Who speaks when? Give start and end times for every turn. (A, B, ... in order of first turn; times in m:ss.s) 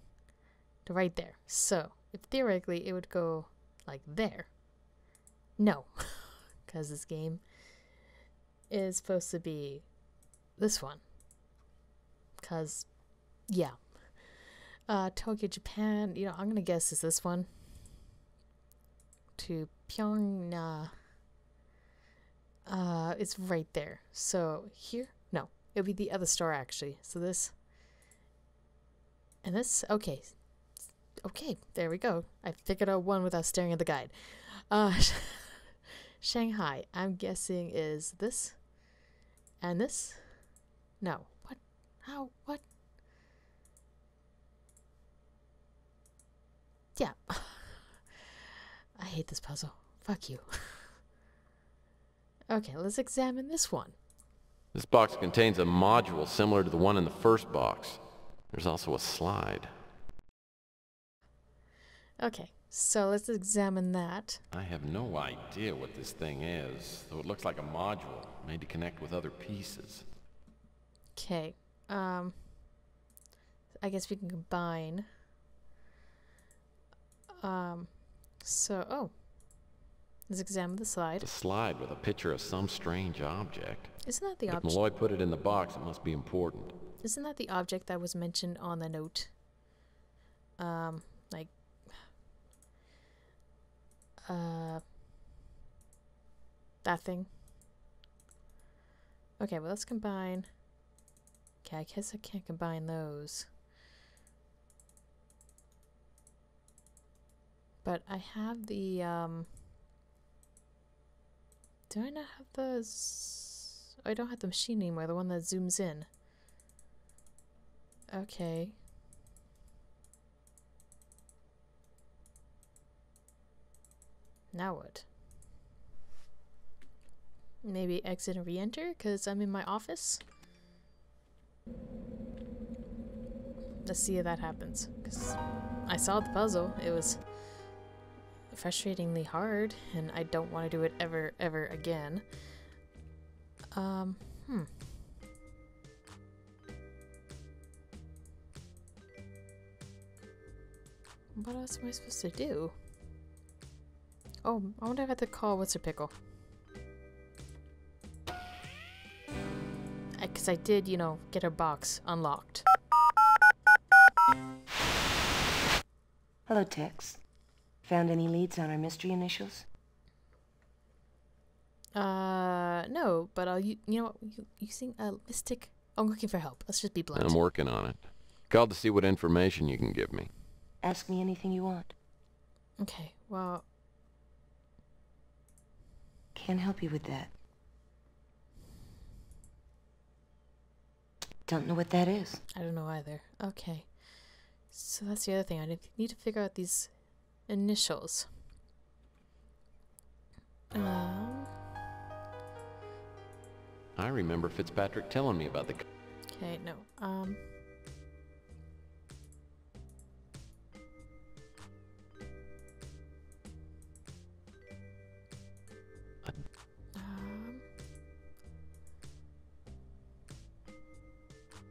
0:00.8-0:04.5 A
0:05.6-0:07.4 A
0:08.7-0:09.9 A
0:10.6-0:11.0 A
0:12.4-0:12.9 A
0:13.5-0:17.7 A
0:19.4-0:20.9 A
0:22.7-0:27.6 A
0:29.4-0:30.5 A
0:31.2-0:38.7 A
0:39.6-0:42.6 A
0:47.0-0:48.0 A
0:49.0-0:50.9 A
0:52.5-0:54.0 A
0:54.7-0:58.0 B
0:58.5-0:59.7 B
1:02.2-1:04.4 A
1:04.5-1:10.0 B
1:11.2-1:12.4 A
1:13.8-1:15.1 A
1:17.4-1:19.1 A
1:20.3-1:21.3 A
1:21.2-1:26.7 B
1:24.0-1:24.8 A
1:27.0-1:29.3 A
1:30.6-1:31.6 A
1:34.3-1:34.8 A
1:36.8-1:37.3 A
1:39.4-1:40.5 A
1:41.6-1:43.5 A
1:47.8-1:49.5 A
1:51.9-1:56.1 A
1:58.1-1:58.8 A
2:04.5-2:05.1 A
2:07.6-2:10.2 A
2:13.8-2:17.2 A
2:18.5-2:22.3 A
2:23.7-2:24.7 A
2:31.4-2:32.8 A
2:34.4-2:36.1 A
2:40.2-2:42.7 A
2:46.5-2:47.2 C
2:47.8-2:49.6 C
2:52.0-2:57.4 A
2:57.2-3:00.3 B
3:00.8-3:01.9 C
3:02.8-3:03.6 A
3:06.4-3:07.3 C
3:11.5-3:12.4 C
3:12.5-3:13.9 A
3:14.7-3:16.9 A
3:17.5-3:18.3 A
3:20.7-3:21.5 A
3:24.0-3:25.8 B
3:26.3-3:27.4 A
3:37.0-3:37.6 A